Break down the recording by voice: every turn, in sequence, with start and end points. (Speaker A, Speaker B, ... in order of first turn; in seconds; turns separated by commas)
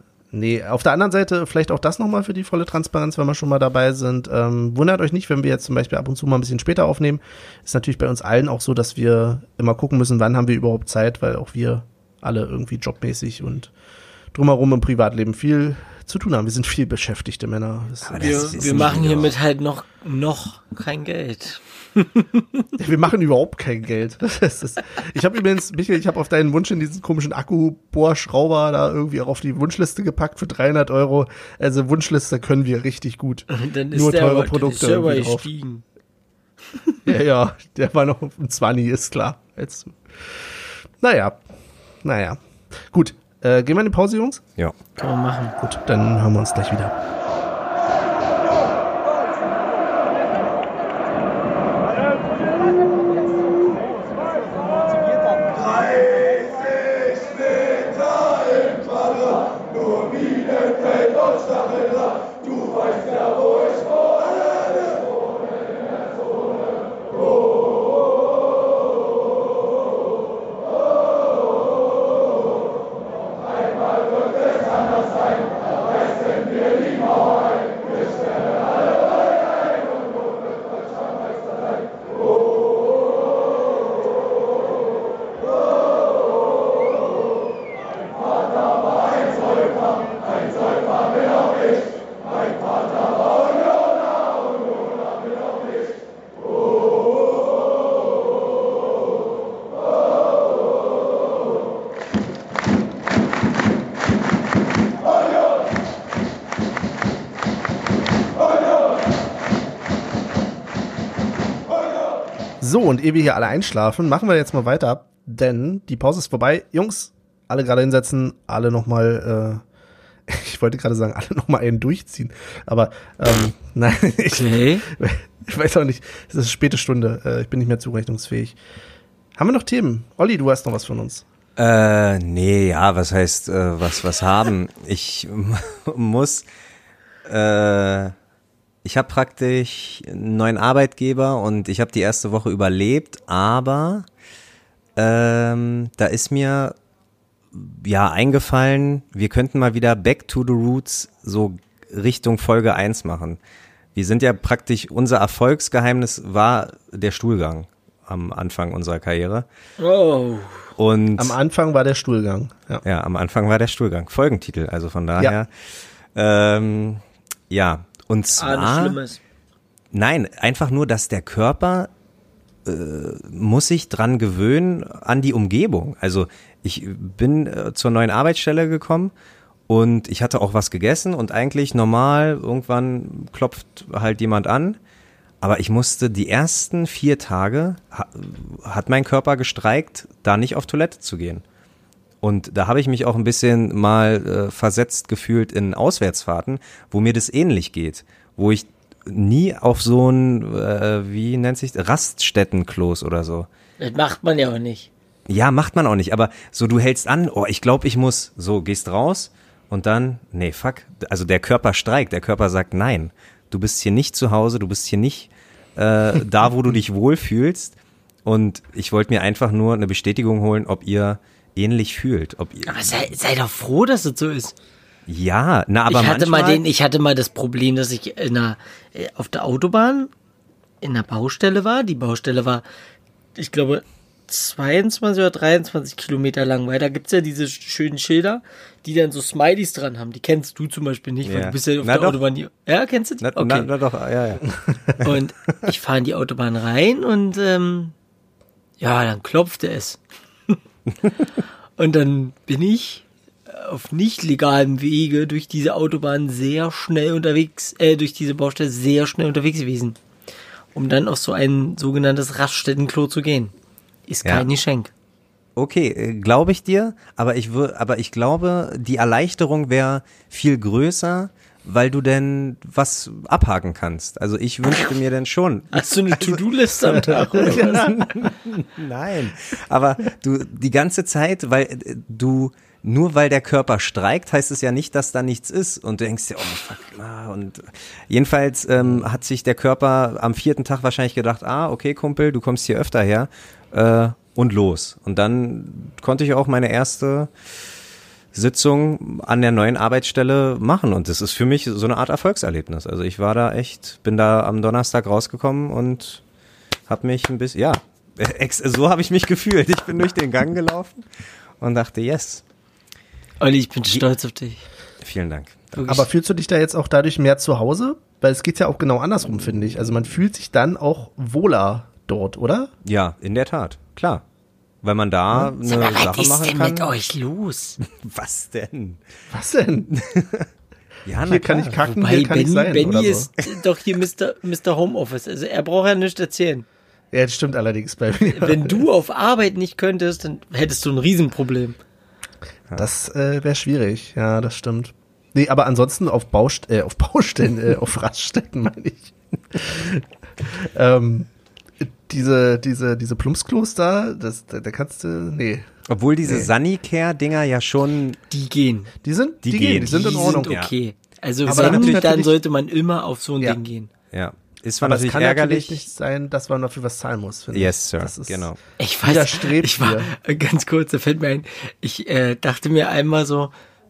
Speaker A: 0.3-13.7, Speaker A: 14.3-18.9, Speaker B: 18.0-19.3, Speaker C: 18.2-22.6, Speaker A: 22.8-35.5, Speaker C: 33.5-35.8, Speaker C: 36.7-37.0, Speaker A: 37.0-41.4, Speaker A: 42.0-44.4, Speaker C: 45.0-45.5, Speaker A: 45.6-47.0, Speaker A: 112.6-119.6, Speaker A: 120.3-128.6, Speaker C: 124.3-124.8, Speaker A: 129.3-131.2, Speaker B: 131.6-136.4, Speaker B: 137.2-138.1, Speaker B: 138.8-144.1, Speaker B: 144.9-146.8, Speaker B: 147.5-153.4, Speaker B: 153.9-159.4, Speaker C: 159.8-160.7, Speaker B: 160.8-161.4, Speaker A: 161.2-162.8, Speaker B: 162.8-169.0, Speaker C: 168.4-169.2, Speaker B: 169.9-171.9, Speaker B: 172.6-179.1, Speaker B: 179.7-184.8, Speaker B: 185.4-191.4, Speaker B: 192.2-203.5, Speaker C: 203.8-204.9, Speaker B: 205.3-223.0, Speaker C: 222.7-224.6, Speaker B: 225.1-226.6, Speaker C: 225.9-230.1, Speaker C: 230.8-232.6, Speaker C: 233.3-243.7, Speaker B: 241.2-242.2, Speaker B: 243.2-244.4, Speaker C: 245.0-247.9, Speaker C: 248.8-250.6, Speaker C: 251.8-260.0, Speaker C: 260.7-263.5, Speaker C: 264.1-264.9, Speaker B: 265.6-297.3, Speaker C: 275.7-277.9, Speaker A: 277.4-278.3, Speaker B: 298.3-306.2, Speaker B: 306.9-311.1, Speaker B: 311.6-312.4, Speaker C: 313.4-314.6, Speaker B: 315.0-315.7, Speaker C: 315.7-316.1, Speaker A: 315.9-322.7, Speaker B: 322.8-324.2, Speaker B: 324.8-326.9, Speaker C: 325.6-327.8, Speaker B: 327.8-329.0, Speaker A: 329.3-329.9, Speaker B: 329.9-330.5, Speaker B: 331.1-331.8, Speaker A: 331.2-333.3, Speaker C: 331.8-336.6, Speaker A: 337.1-338.8, Speaker C: 338.2-341.8, Speaker A: 342.7-351.3, Speaker A: 351.8-355.7, Speaker B: 355.9-358.2, Speaker A: 356.2-356.5, Speaker C: 358.3-358.9, Speaker A: 359.0-360.6, Speaker B: 359.4-360.7, Speaker C: 359.8-363.9, Speaker B: 361.4-362.1, Speaker A: 361.4-362.3, Speaker B: 364.1-365.9, Speaker A: 364.8-368.5, Speaker B: 367.5-368.6, Speaker C: 368.8-373.5, Speaker A: 369.0-370.1